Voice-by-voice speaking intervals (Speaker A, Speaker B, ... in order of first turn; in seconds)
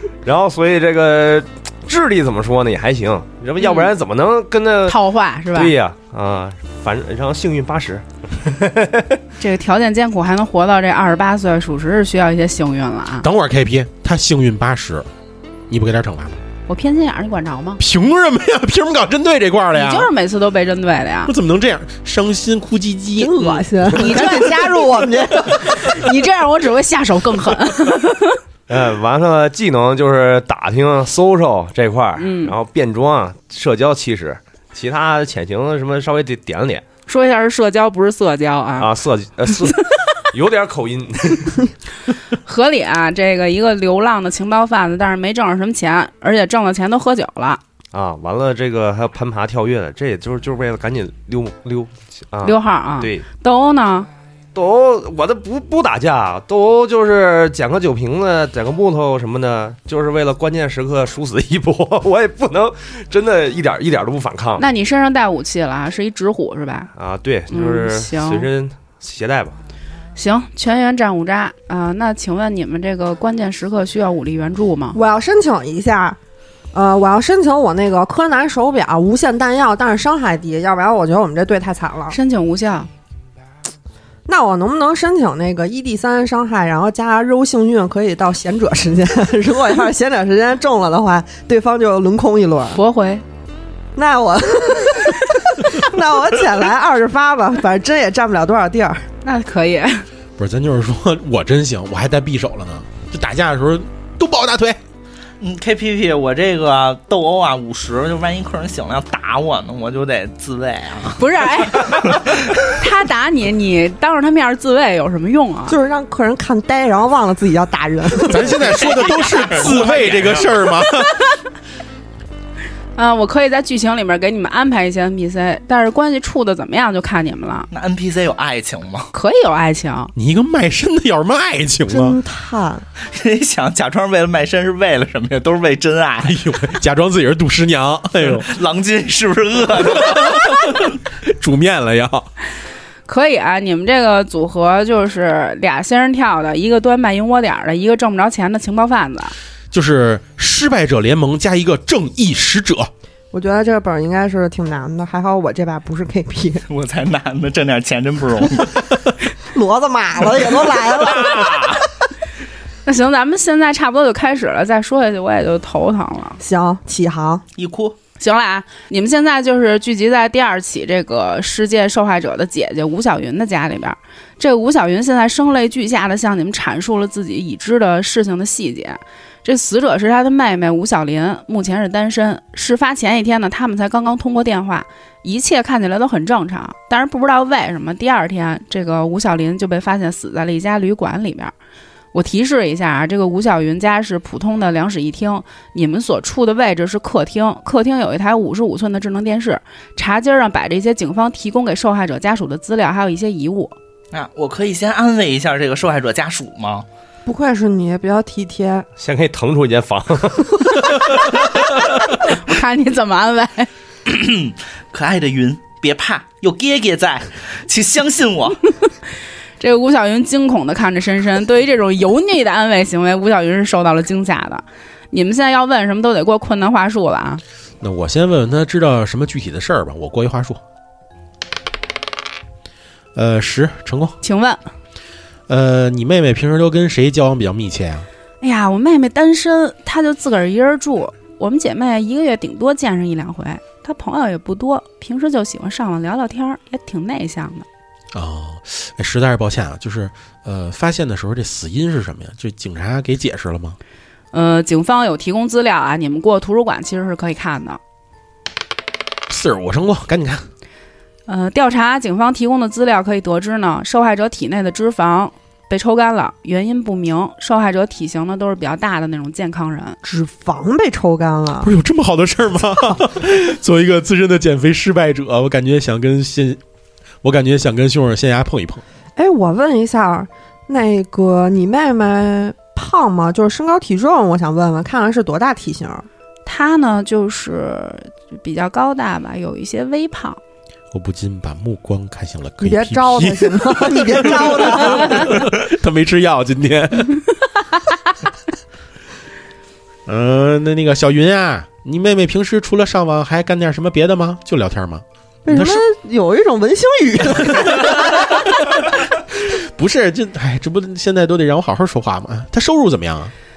Speaker A: 0.2-5.0, 5.5-9.2, 28.7-36.8, 38.8-41.6, 47.9-53.3, 54.5-64.7, 67.0-69.6, 209.0-211.3
Speaker B: 4.9-5.7, 9.4-13.3, 16.7-17.8, 19.7-21.3, 23.9-28.4, 32.2-32.5, 37.1-38.9, 39.5-39.8, 42.3-47.6, 52.4-54.1, 64.6-66.9, 67.5-68.5, 70.2-75.0, 82.1-82.9, 92.7-93.2, 99.2-100.1, 111.2-115.8, 123.0-127.7, 129.1-130.1, 143.1-149.3, 162.8-166.4, 168.2-191.5, 192.1-203.8, 212.2-213.7, 219.6-227.4, 234.2-234.6, 238.4-247.7, 254.3-257.8, 261.3-270.0, 286.4-290.4
Speaker C: 13.2-15.1, 15.7-16.4, 17.8-20.1, 21.3-24.3, 100.4-104.8, 118.3-121.2, 130.2-132.2, 136.2-138.5, 139.9-142.3, 149.7-152.9, 227.8-230.6, 233.2-234.2, 235.5-238.1, 248.1-253.8, 259.3-260.4, 271.6-276.6, 277.2-278.8, 290.9-297.2, 300.1-305.8, 307.5-313.3
Speaker D: 23.2-26.1, 74.9-76.2, 76.7-82.2, 84.3-92.8, 94.0-99.1, 115.7-118.5, 131.9-132.8, 153.3-156.6, 159.5-161.9, 166.4-167.4, 207.3-208.9, 270.0-271.7, 279.2-286.1, 292.6-295.5, 305.4-308.5
Speaker E: 105.4-112.5, 118.4-120.7, 127.7-129.1, 133.1-136.4, 138.3-140.8, 156.7-158.8, 167.6-168.0, 204.1-206.9, 214.1-218.6